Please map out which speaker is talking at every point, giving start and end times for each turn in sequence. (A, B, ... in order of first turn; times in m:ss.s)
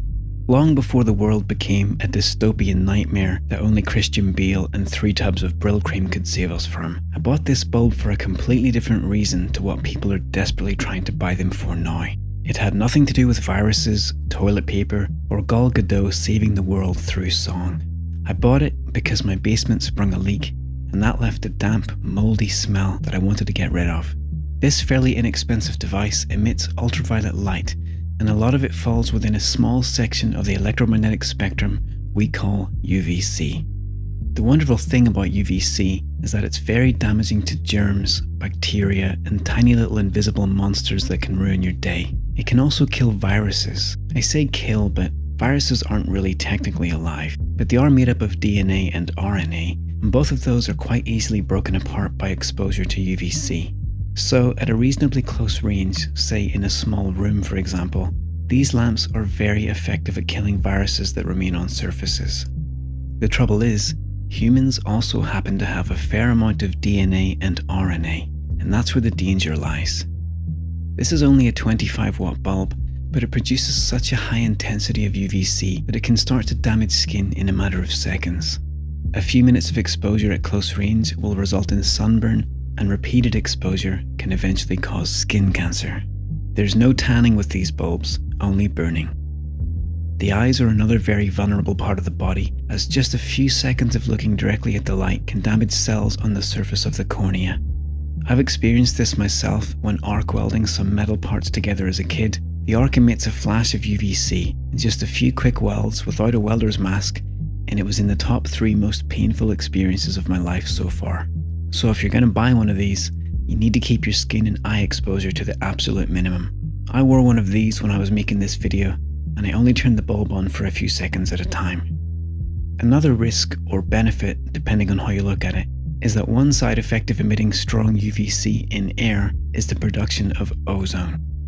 0:00.5-0:33.7 A
0:34.3-1:02.5 A
1:03.2-1:10.1 A
1:11.0-1:18.6 A
1:19.1-1:29.1 A
1:30.2-1:37.6 A
1:38.2-2:01.9 A
2:02.8-2:11.2 A